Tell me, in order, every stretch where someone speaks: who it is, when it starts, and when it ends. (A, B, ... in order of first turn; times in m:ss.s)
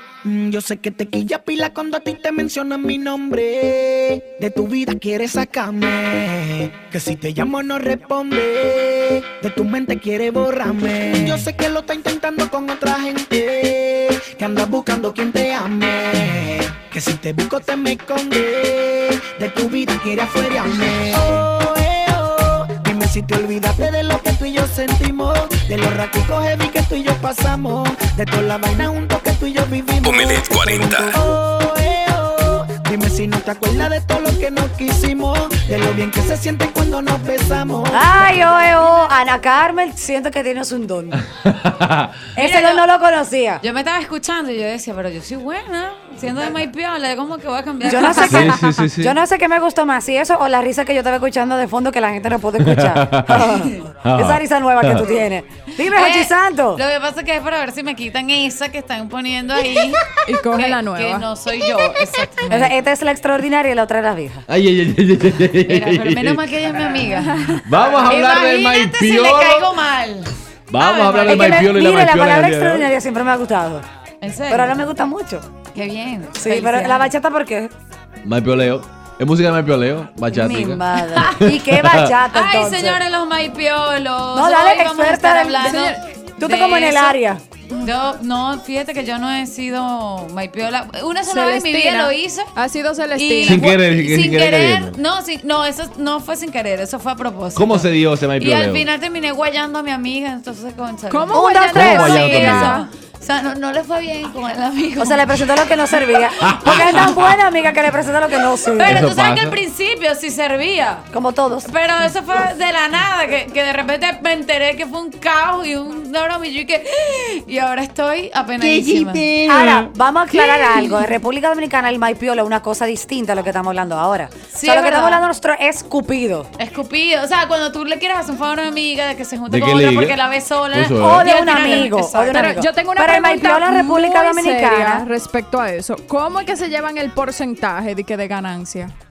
0:00.2-0:38.1 A
0:37.9-0:41.2 B
0:41.5-0:42.1 C
0:42.4-0:42.8 D
0:42.4-0:43.6 B
0:43.6-0:48.6 D
0:47.9-0:56.8 B
0:48.3-0:49.2 C
0:52.7-0:53.5 C
0:53.4-0:53.7 D
0:54.1-0:55.0 C
0:55.9-1:02.7 D
1:00.3-1:01.3 E
1:02.5-1:04.5 B
1:04.5-1:06.4 C
1:05.7-1:11.7 D
1:07.7-1:09.7 C
1:10.7-1:12.9 C
1:11.1-1:13.8 B
1:14.2-1:14.7 D
1:14.5-1:15.4 B
1:15.7-1:17.1 D
1:16.4-1:17.7 B
1:18.2-1:20.8 C
1:20.3-1:23.0 B
1:21.2-1:21.4 D
1:21.5-1:22.0 C
1:22.3-1:27.2 D
1:24.3-1:27.4 B
1:25.7-1:26.0 E
1:27.8-1:32.5 D
1:31.2-1:33.7 E
1:33.1-1:45.3 D
1:33.5-1:35.0 C
1:37.6-1:38.9 C
1:41.1-1:42.9 E
1:41.3-1:42.4 B
1:41.7-1:42.8 C
1:45.0-1:49.0 B
1:46.4-1:47.1 C
1:48.8-1:51.1 D
1:48.9-1:49.6 C
1:51.1-1:51.7 B
1:51.6-1:59.3 D
1:59.5-2:06.5 B
2:04.5-2:05.2 D
2:06.6-2:12.5 D
2:09.5-2:10.2 C
2:10.7-2:11.2 C
2:11.0-2:15.1 B
2:12.3-2:18.9 E